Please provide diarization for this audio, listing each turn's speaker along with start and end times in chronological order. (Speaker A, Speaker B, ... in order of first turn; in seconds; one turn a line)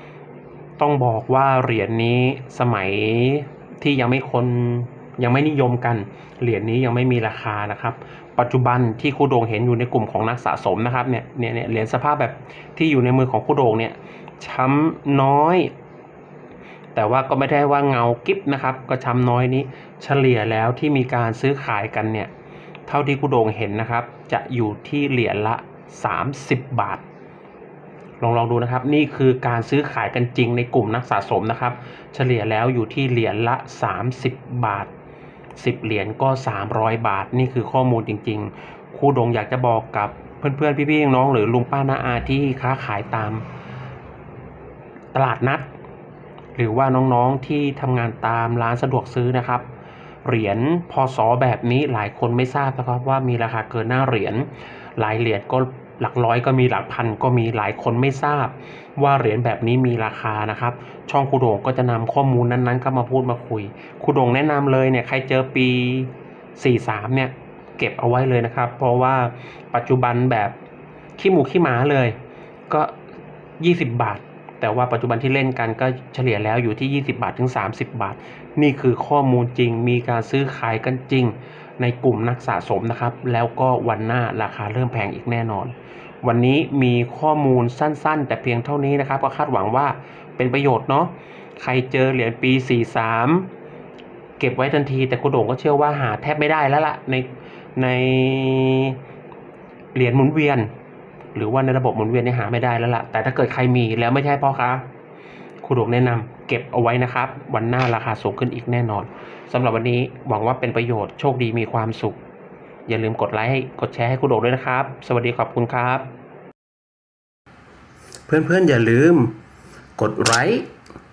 Speaker A: 0.8-15.7
Speaker A: 16.9-22.3
Speaker A: 22.9-27.0
Speaker A: 28.2-34.9
Speaker A: 35.6-43.5
Speaker A: 45.1-45.7
Speaker A: 46.6-49.7
Speaker A: 50.2-70.5
Speaker A: 71.2-72.2
Speaker A: 72.7-73.0
Speaker A: 73.6-93.5
Speaker A: 94.4-99.0
Speaker A: 100.0-100.7
Speaker A: 101.3-104.9
Speaker A: 105.6-112.2
Speaker A: 112.9-116.1
Speaker A: 118.3-119.4
Speaker A: 120.0-120.7